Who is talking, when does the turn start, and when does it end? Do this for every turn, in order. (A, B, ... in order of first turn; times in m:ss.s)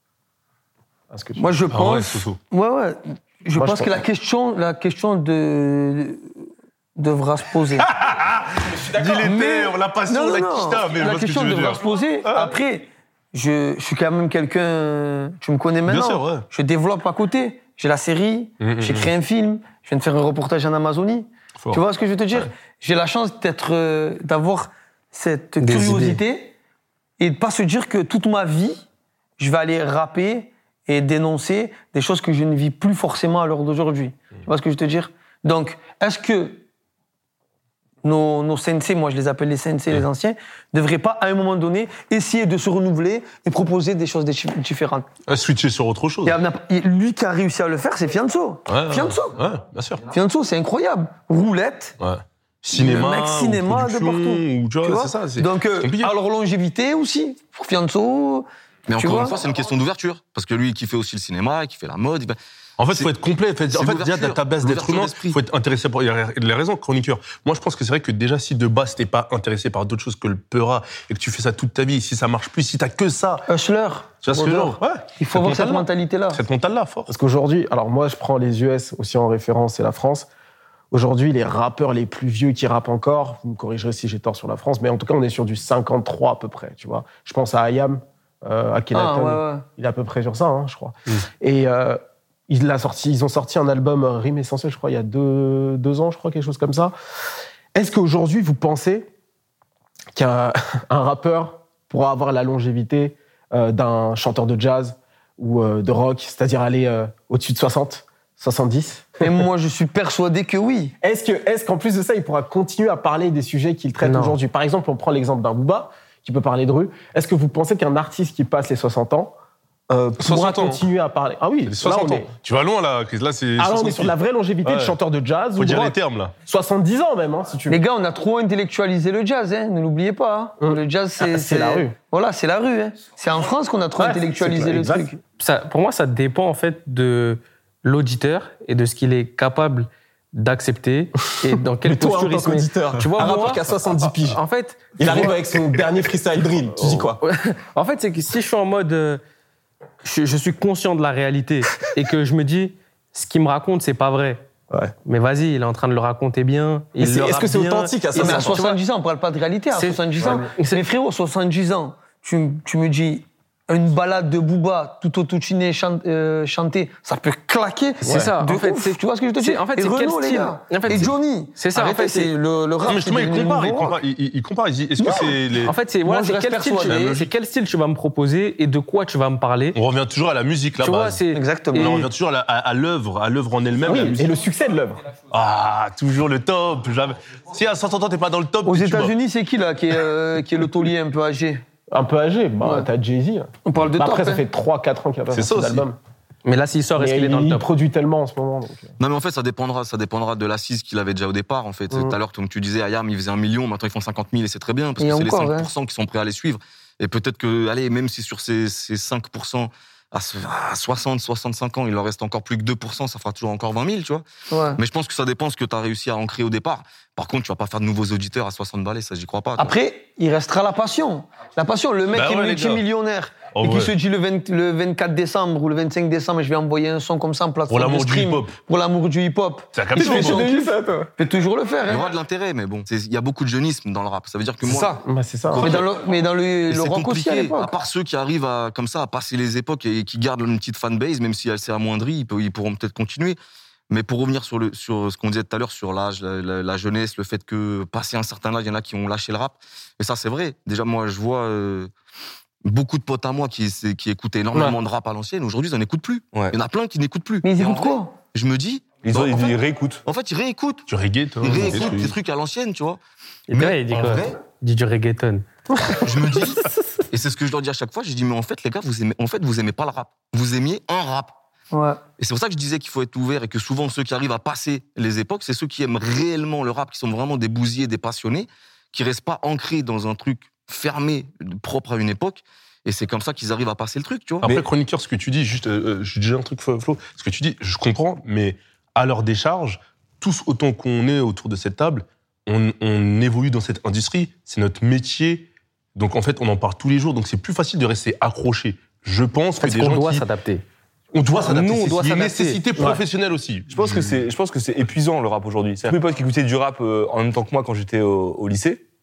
0:01.1-0:01.5 A
0:01.4-0:06.4 B
0:01.7-0:02.4 C
0:03.5-0:04.0 A
0:07.0-0:07.8 B
0:07.8-0:12.5 C
0:09.0-0:26.5 B
0:15.8-0:16.5 C
0:18.6-0:19.1 C
0:25.6-0:26.2 D
0:27.2-0:28.8 B
0:29.4-0:36.6 B
0:38.0-0:45.1 B
0:45.3-0:46.4 C
0:46.2-0:49.4 B
0:48.7-0:50.0 C
0:50.1-0:52.0 B
0:52.0-0:56.1 C
0:52.7-0:58.4 B
0:58.9-1:03.1 E
0:59.0-0:59.4 B
1:02.8-1:13.4 C
1:03.7-1:05.4 E
1:13.5-1:16.4 B
1:14.2-1:17.1 C
1:17.1-1:20.3 A
1:20.9-1:36.9 A
1:28.9-1:29.6 B
1:37.7-1:39.1 A
1:40.1-1:49.3 A
1:49.2-1:50.9 B
1:51.0-1:59.3 A
1:54.0-1:54.4 D
1:59.9-2:02.3 A
2:00.2-2:00.8 C
2:01.7-2:04.1 C
2:03.6-2:07.8 A
2:04.6-2:05.0 C
2:05.6-2:06.3 C
2:07.7-2:15.2 B
2:10.6-2:11.9 A
2:14.0-2:15.2 A
2:15.4-2:23.6 D
2:21.8-2:24.4 A
2:24.2-2:25.3 D
2:25.0-2:27.2 A
2:27.2-2:29.2 D
2:30.0-2:34.4 D
2:35.0-2:38.8 D
2:37.0-2:38.6 A
2:38.1-2:54.0 B
2:39.7-2:40.8 D
2:48.0-2:52.3 D
2:48.1-2:48.3 A
2:52.8-2:55.7 C
2:55.0-2:55.4 B
2:55.6-2:59.8 D
2:56.0-2:57.2 B
2:56.9-2:57.3 C
2:59.7-3:04.3 C
3:00.8-3:02.0 D
3:01.3-3:02.1 B
3:03.8-3:05.0 A
3:05.3-3:09.1 C
3:08.6-3:11.6 B
3:11.9-3:16.0 A
3:13.6-3:14.4 B
3:15.3-3:15.8 C
3:16.4-3:17.6 D
3:17.0-3:18.9 A
3:19.0-3:39.7 E
3:25.0-3:25.7 B
3:34.5-3:34.8 B
3:39.6-3:52.1 B
3:42.1-3:42.8 C
3:43.5-3:43.9 C
3:47.7-3:48.6 C
3:49.7-3:50.5 C
3:50.0-3:51.1 A
3:51.8-3:55.0 E
3:54.6-3:55.9 F
3:55.0-3:55.6 A
3:55.6-3:57.8 B
3:56.7-4:03.4 E
4:03.9-4:11.9 E
4:12.6-4:20.9 E
4:17.4-4:18.2 B
4:19.0-4:20.0 F
4:20.9-4:22.1 C
4:21.4-4:23.0 E
4:23.5-4:25.4 D
4:23.9-4:24.3 E
4:25.9-4:31.4 E
4:31.7-4:32.0 B
4:32.2-4:44.5 E
4:44.4-5:00.2 C
4:59.6-5:00.6 D
5:01.1-5:04.1 C
5:01.3-5:02.6 D
5:02.8-5:03.0 A
5:03.7-5:08.8 F